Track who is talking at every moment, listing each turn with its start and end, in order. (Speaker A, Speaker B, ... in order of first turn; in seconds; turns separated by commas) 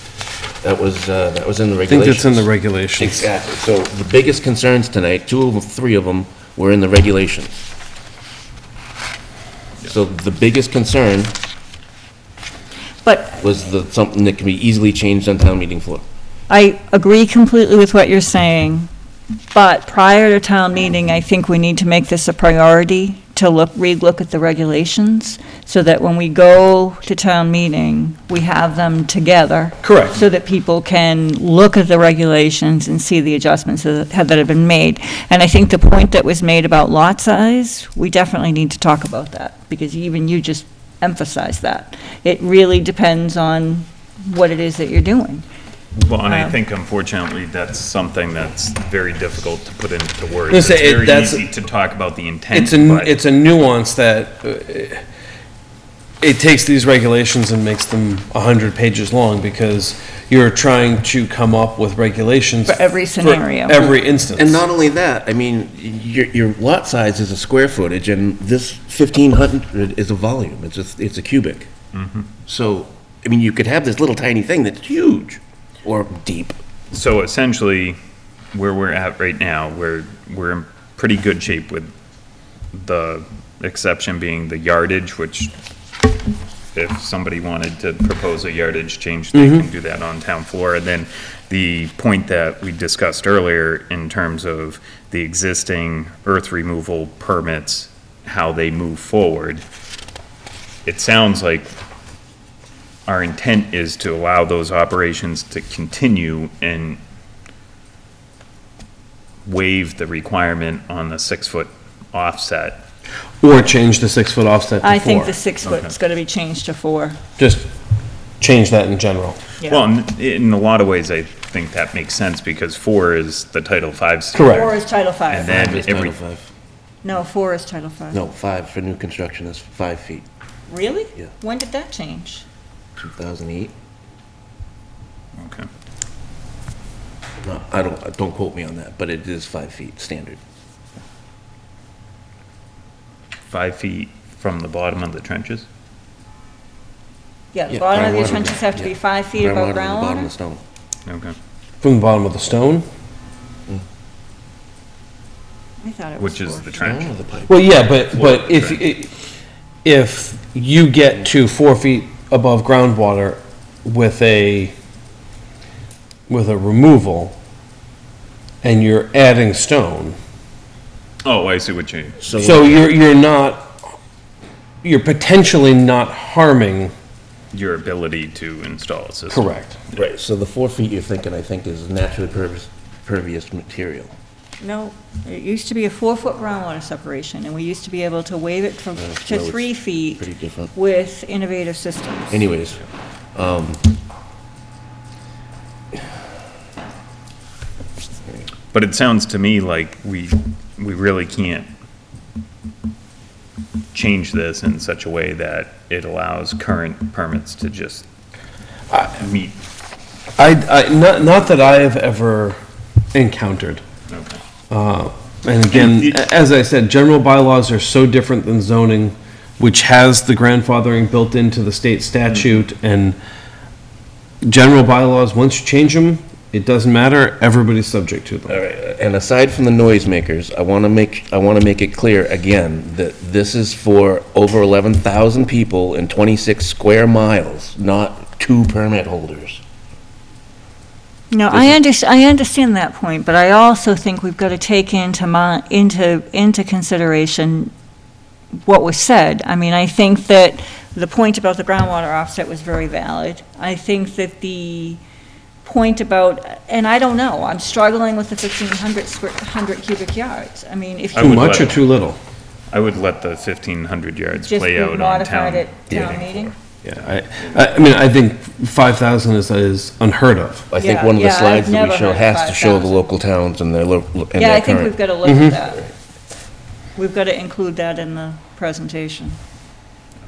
Speaker A: 0.6-2.5, Speaker B: 1.9-3.3, Speaker A: 3.0-7.6, Speaker A: 9.8-11.3, Speaker C: 13.0-13.5, Speaker A: 13.4-16.0, Speaker C: 16.5-18.9, Speaker C: 19.5-45.4, Speaker B: 29.8-30.2, Speaker D: 46.0-53.1, Speaker C: 46.2-46.6, Speaker B: 50.5-51.4, Speaker B: 52.5-55.0, Speaker B: 56.2-64.6, Speaker C: 62.6-64.0, Speaker A: 64.3-71.7, Speaker D: 71.9-72.3, Speaker A: 72.5-76.6, Speaker D: 76.9-78.0, Speaker D: 78.5-81.9, Speaker D: 82.7-85.5, Speaker D: 86.7-99.6, Speaker B: 89.3-89.7, Speaker D: 100.8-101.7, Speaker D: 103.1-107.0, Speaker D: 109.4-112.8, Speaker B: 113.4-115.3, Speaker C: 114.8-117.2, Speaker D: 115.6-115.9, Speaker B: 117.4-117.7, Speaker B: 118.4-119.4, Speaker D: 119.6-124.7, Speaker B: 124.3-124.7, Speaker C: 124.4-125.5, Speaker D: 125.3-126.2, Speaker A: 125.5-126.5, Speaker C: 127.0-128.2, Speaker A: 128.1-130.2, Speaker C: 130.7-132.4, Speaker A: 133.0-133.7, Speaker D: 135.4-135.7, Speaker A: 137.4-140.4, Speaker D: 143.5-145.7, Speaker C: 147.5-150.3, Speaker A: 147.7-150.6, Speaker D: 151.1-151.3, Speaker B: 151.8-152.8, Speaker C: 155.8-157.0, Speaker D: 156.2-157.1, Speaker A: 156.8-157.6, Speaker B: 157.5-159.1, Speaker D: 157.8-158.8, Speaker B: 159.8-164.7, Speaker B: 166.3-167.3, Speaker B: 168.6-170.2, Speaker D: 171.2-172.2, Speaker A: 172.2-172.8, Speaker B: 172.3-173.8, Speaker B: 174.8-176.9, Speaker D: 177.5-180.1, Speaker B: 179.3-179.8, Speaker A: 179.9-184.1, Speaker C: 184.6-192.5, Speaker A: 189.0-190.7, Speaker A: 192.3-192.8, Speaker A: 193.3-193.9, Speaker D: 198.7-201.7, Speaker D: 203.9-208.1, Speaker D: 209.0-209.6, Speaker B: 210.4-212.6, Speaker B: 213.1-213.8, Speaker D: 214.1-214.4, Speaker B: 214.7-223.2, Speaker D: 215.7-216.2, Speaker D: 222.3-222.5, Speaker B: 224.4-228.6, Speaker A: 228.5-239.6, Speaker C: 241.3-247.7, Speaker A: 241.5-241.8, Speaker C: 248.6-255.0, Speaker C: 255.6-261.6, Speaker D: 261.1-261.8, Speaker B: 261.2-262.2, Speaker D: 262.7-266.4, Speaker C: 264.4-266.5, Speaker B: 266.8-270.6, Speaker A: 270.7-275.0, Speaker C: 270.7-273.0, Speaker C: 274.4-275.9, Speaker B: 275.2-275.6, Speaker A: 275.7-275.9, Speaker C: 276.9-279.4